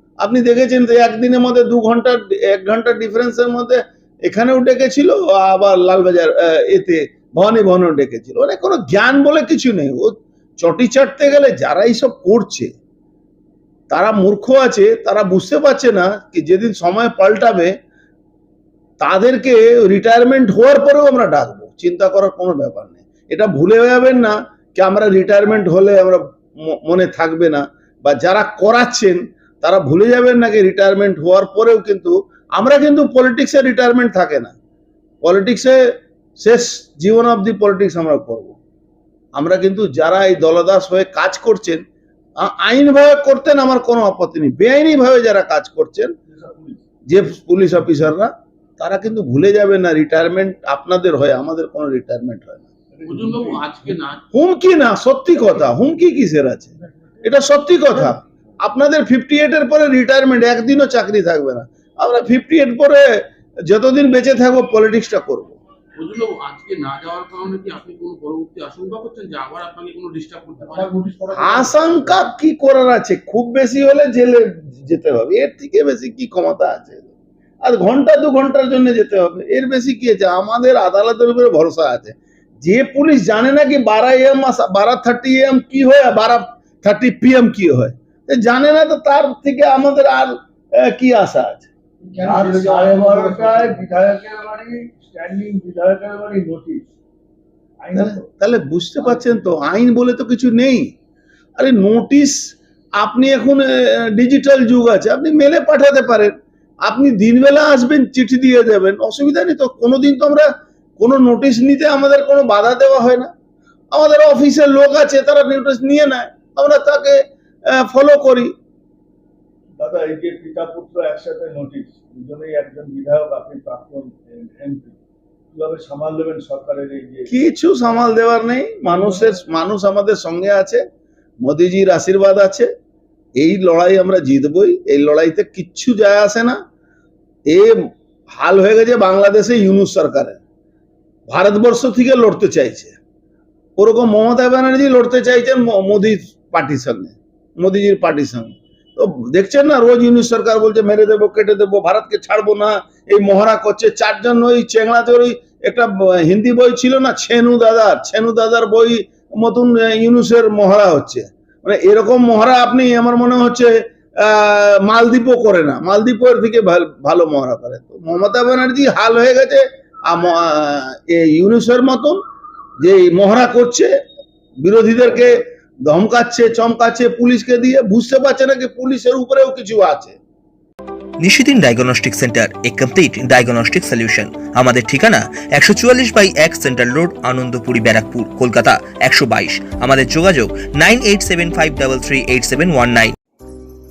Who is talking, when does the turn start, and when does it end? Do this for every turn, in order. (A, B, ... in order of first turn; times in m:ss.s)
0:00.2-0:12.7 A
0:13.9-0:17.7 A
0:19.0-0:26.2 A
0:26.7-0:34.5 A
0:35.2-0:35.8 A
0:36.4-0:38.5 A
0:39.4-0:41.8 A
0:42.4-0:46.0 A
0:46.3-0:46.8 B
0:47.1-0:52.6 A
0:52.9-0:53.9 B
0:53.0-0:54.2 C
0:54.3-0:56.5 A
0:57.3-0:58.2 A
0:58.7-1:03.0 A
1:03.7-1:05.5 A
1:06.0-1:11.0 C
1:11.3-1:17.0 A
1:11.4-1:12.2 B
1:17.6-1:31.6 A
1:32.0-1:36.9 B
1:37.8-1:38.2 B
1:38.0-1:40.9 A
1:39.1-1:39.4 B
1:41.6-1:42.4 A
1:43.0-1:46.3 A
1:46.9-1:50.4 A
1:51.0-1:53.3 A
1:53.9-1:57.2 A
1:57.8-1:58.5 A
1:59.8-2:05.0 B
2:05.5-2:07.3 B
2:07.3-2:10.8 A
2:08.9-2:09.4 B
2:11.4-2:12.6 A
2:13.4-2:16.5 A
2:18.4-2:20.4 A
2:21.3-2:22.9 A
2:23.8-2:43.7 A
2:44.3-2:52.2 A
2:52.8-2:53.9 A
2:54.6-2:55.3 A
2:55.9-3:00.1 A
3:01.2-3:13.1 D